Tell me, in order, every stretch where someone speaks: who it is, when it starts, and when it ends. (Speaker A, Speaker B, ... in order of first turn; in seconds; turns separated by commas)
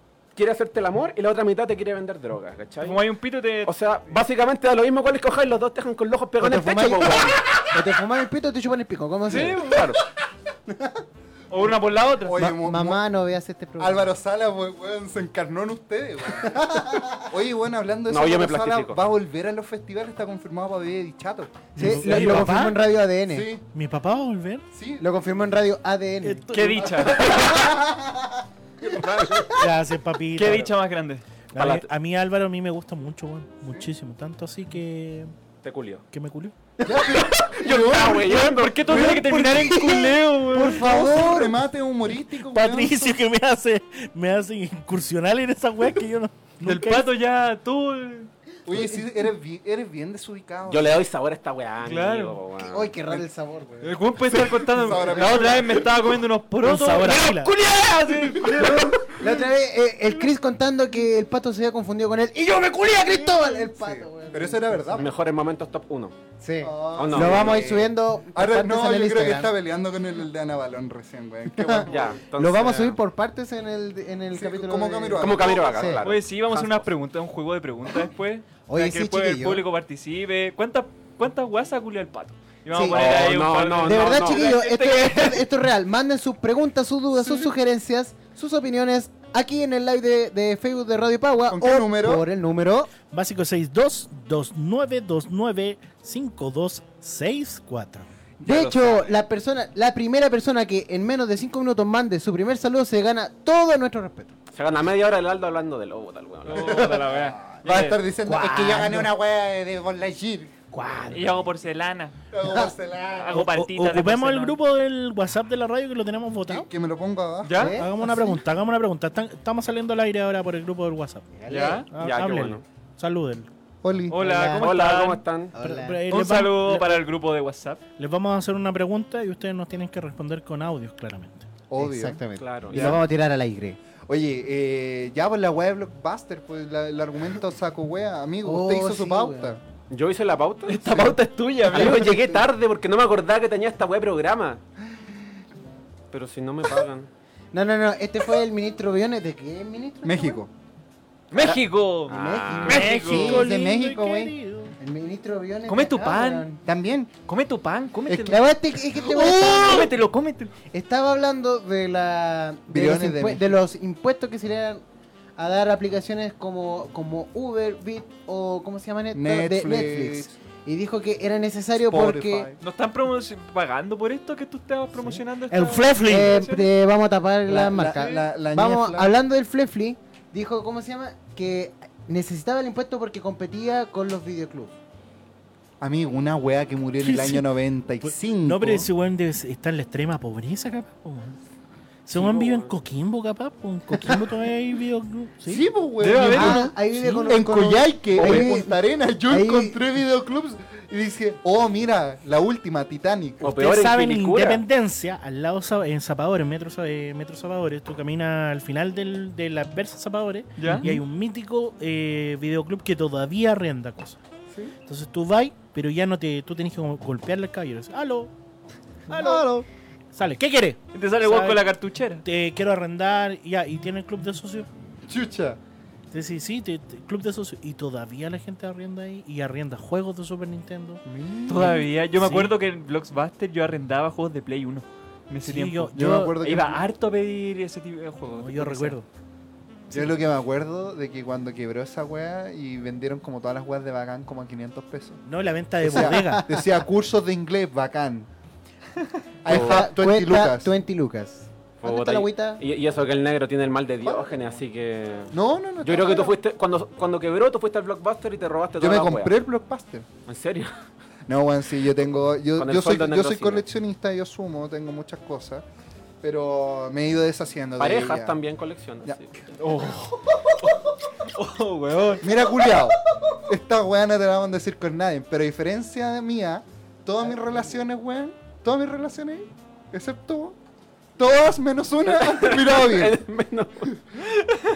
Speaker A: 0.3-3.0, Speaker B: 2.8-3.7, Speaker A: 3.6-7.4, Speaker C: 6.4-9.8, Speaker B: 9.3-9.9, Speaker A: 9.3-10.0, Speaker C: 10.7-11.0, Speaker B: 11.5-12.4, Speaker D: 12.2-13.0, Speaker C: 12.4-14.1, Speaker D: 13.8-21.7, Speaker C: 16.4-17.2, Speaker A: 18.1-19.0, Speaker C: 21.8-23.5, Speaker E: 21.8-22.8, Speaker D: 23.3-23.6, Speaker E: 23.7-24.6, Speaker D: 24.7-25.1, Speaker C: 25.0-26.5, Speaker E: 26.2-27.0, Speaker B: 26.5-27.4, Speaker D: 27.0-27.8, Speaker C: 27.1-27.8, Speaker A: 27.2-27.5, Speaker D: 28.8-29.6, Speaker A: 28.9-29.5, Speaker E: 29.6-30.7, Speaker B: 30.3-31.2, Speaker E: 31.5-35.3, Speaker A: 31.6-31.9, Speaker A: 35.6-36.0, Speaker E: 36.1-36.5, Speaker D: 36.9-40.0, Speaker A: 36.9-39.1, Speaker B: 38.0-40.9, Speaker C: 39.0-41.6, Speaker D: 40.5-43.2, Speaker E: 42.3-47.1, Speaker B: 46.6-48.3, Speaker D: 48.7-51.0, Speaker A: 50.7-52.9, Speaker B: 51.8-52.4, Speaker C: 52.6-54.0, Speaker B: 53.8-59.3, Speaker D: 54.3-55.9, Speaker C: 54.9-55.5, Speaker E: 56.6-57.5, Speaker D: 58.6-58.8, Speaker C: 58.6-65.1, Speaker D: 63.3-65.1, Speaker A: 65.0-66.2, Speaker C: 66.4-69.5, Speaker D: 66.6-72.2, Speaker A: 67.0-67.8, Speaker C: 71.5-76.0, Speaker A: 71.9-73.0, Speaker D: 74.3-76.0, Speaker A: 75.2-76.6, Speaker B: 76.0-85.5, Speaker C: 78.7-79.7, Speaker C: 82.7-83.1, Speaker A: 82.9-84.5, Speaker C: 83.8-92.9, Speaker D: 91.5-92.3, Speaker E: 93.1-98.1, Speaker C: 98.4-104.3, Speaker B: 98.5-99.1, Speaker A: 104.5-107.1, Speaker B: 106.5-108.0, Speaker D: 106.5-110.6, Speaker C: 108.2-109.1, Speaker C: 110.7-111.5, Speaker B: 111.1-112.2, Speaker D: 112.3-113.4, Speaker C: 112.4-112.7, Speaker B: 113.2-114.6, Speaker E: 113.3-116.7, Speaker D: 116.5-118.1, Speaker B: 117.4-117.8, Speaker C: 117.5-118.1, Speaker E: 117.7-121.4, Speaker C: 121.4-121.9, Speaker B: 121.5-121.9, Speaker E: 121.9-123.5, Speaker A: 121.9-122.6, Speaker D: 123.8-124.2, Speaker B: 124.1-125.2, Speaker C: 124.1-124.7, Speaker A: 124.6-125.5, Speaker C: 125.5-126.0, Speaker E: 125.6-127.0, Speaker B: 126.1-127.8, Speaker E: 128.0-131.5, Speaker D: 131.7-133.0, Speaker C: 131.8-133.8, Speaker A: 132.4-133.0, Speaker D: 134.1-139.6, Speaker C: 138.4-139.6, Speaker A: 139.9-144.6, Speaker B: 140.7-142.3, Speaker D: 141.7-142.4, Speaker A: 146.1-147.1, Speaker C: 147.5-150.4, Speaker D: 150.0-150.5, Speaker B: 151.3-153.5, Speaker A: 151.4-153.0, Speaker C: 152.1-153.4, Speaker E: 152.7-154.8, Speaker D: 152.7-154.3, Speaker C: 154.8-156.6, Speaker B: 155.7-156.5, Speaker D: 156.7-157.1, Speaker B: 157.3-158.5, Speaker D: 158.1-158.3, Speaker C: 158.2-159.9, Speaker D: 158.9-159.9, Speaker B: 159.2-160.5, Speaker C: 160.7-164.8, Speaker D: 162.7-163.6, Speaker C: 165.4-172.5, Speaker D: 169.1-170.4, Speaker D: 171.8-172.6, Speaker B: 172.6-176.6, Speaker E: 175.1-176.4, Speaker C: 176.0-184.7, Speaker D: 177.5-179.1, Speaker D: 185.8-188.9, Speaker E: 187.0-187.5, Speaker E: 188.0-191.4, Speaker E: 192.1-195.7, Speaker A: 192.1-192.8, Speaker D: 195.5-203.4, Speaker B: 196.0-196.7, Speaker C: 196.2-198.8, Speaker A: 198.2-198.5, Speaker C: 199.3-199.8, Speaker A: 203.4-204.6, Speaker E: 203.4-214.2, Speaker B: 210.6-210.9, Speaker E: 214.8-218.3, Speaker E: 219.1-219.6, Speaker D: 219.1-219.6, Speaker E: 220.1-221.7, Speaker B: 220.9-222.2, Speaker E: 222.2-224.7, Speaker D: 225.1-225.6, Speaker E: 226.1-231.0, Speaker D: 231.1-231.9, Speaker B: 231.5-239.0, Speaker E: 231.6-232.6, Speaker E: 235.4-236.4, Speaker D: 235.9-236.8, Speaker E: 238.3-239.1, Speaker D: 239.9-245.2, Speaker E: 245.2-246.5, Speaker D: 245.8-248.3, Speaker C: 245.9-246.5, Speaker D: 249.4-250.7, Speaker C: 249.5-252.6, Speaker A: 249.5-249.9, Speaker A: 251.8-259.3, Speaker D: 255.3-256.4, Speaker D: 258.8-260.1, Speaker A: 260.3-260.7, Speaker D: 261.3-265.6, Speaker A: 262.6-263.6, Speaker D: 266.2-268.4, Speaker A: 267.8-269.3, Speaker B: 269.6-272.3, Speaker D: 272.2-280.6, Speaker D: 281.2-283.2, Speaker A: 282.1-283.9